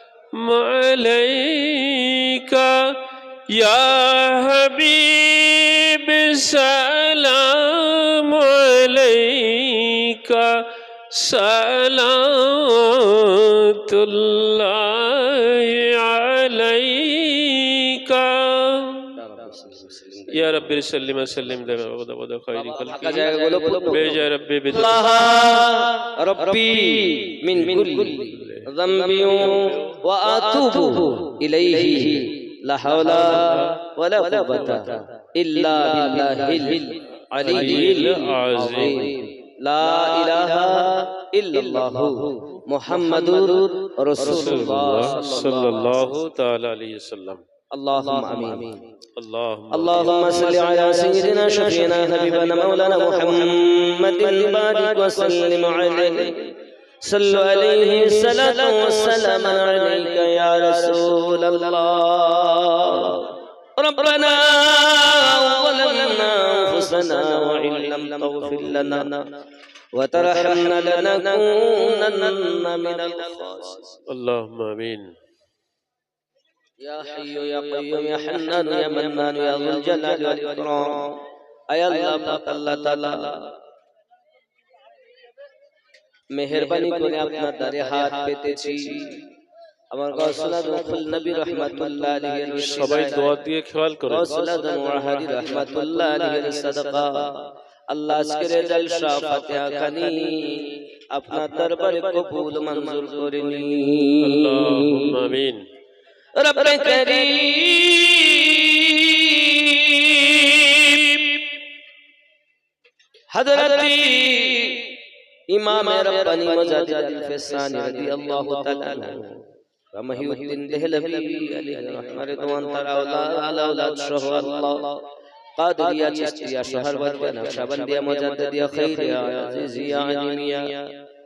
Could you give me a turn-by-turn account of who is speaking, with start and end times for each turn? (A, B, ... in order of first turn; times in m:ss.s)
0:00.3-0:19.2 A
0:19.2-0:20.3 B
0:20.3-0:25.1 A
0:22.8-0:24.1 B
0:24.9-0:45.9 B
0:27.8-0:28.7 A
0:37.4-0:39.2 A
0:44.2-0:47.4 A
0:47.7-0:48.9 B
0:49.2-0:50.3 A
0:49.7-1:09.3 B
1:09.9-1:14.0 B
1:14.1-1:15.1 A
1:16.8-1:23.6 B
1:26.3-1:29.3 B
1:29.9-1:33.4 B
1:32.6-1:34.4 A
1:34.1-1:45.2 B
1:44.2-1:45.7 A
1:46.4-1:51.4 B
1:53.3-1:55.0 B
1:55.5-2:05.0 B
2:05.6-2:11.0 B